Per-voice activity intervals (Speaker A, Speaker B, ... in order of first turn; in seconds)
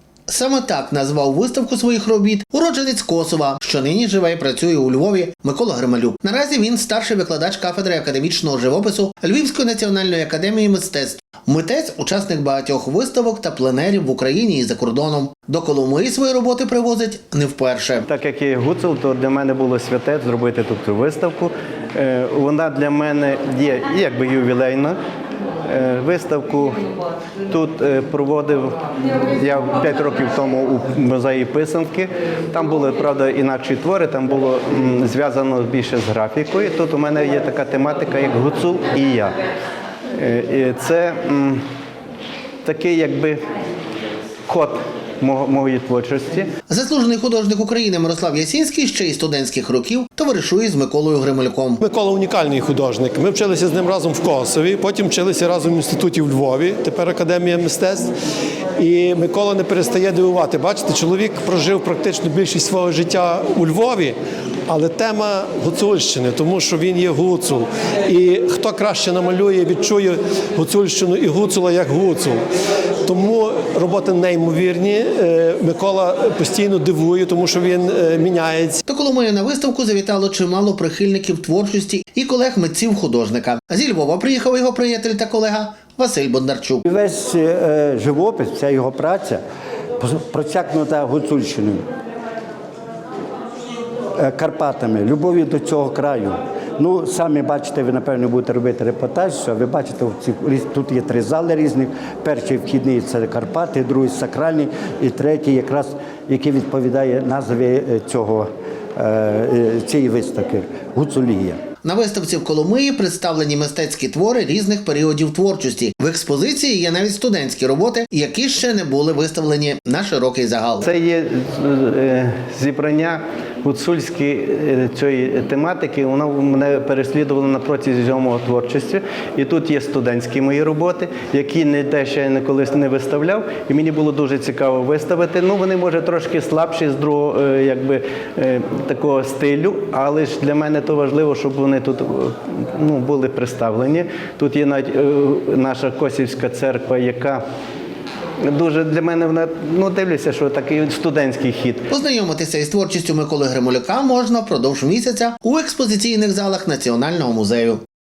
Speaker A: 0.3-18.1, 46.7-51.8, 78.9-86.8, 111.8-120.9, 151.9-157.8
Speaker B: 18.1-25.0, 25.6-26.8, 27.5-39.4, 40.1-41.6, 42.6-43.4, 44.5-46.5, 120.8-147.4, 148.4-151.9
Speaker C: 51.8-58.1, 58.8-64.2, 64.7-72.4, 73.0-78.8
Speaker D: 86.8-89.4, 90.0-91.8, 94.2-111.6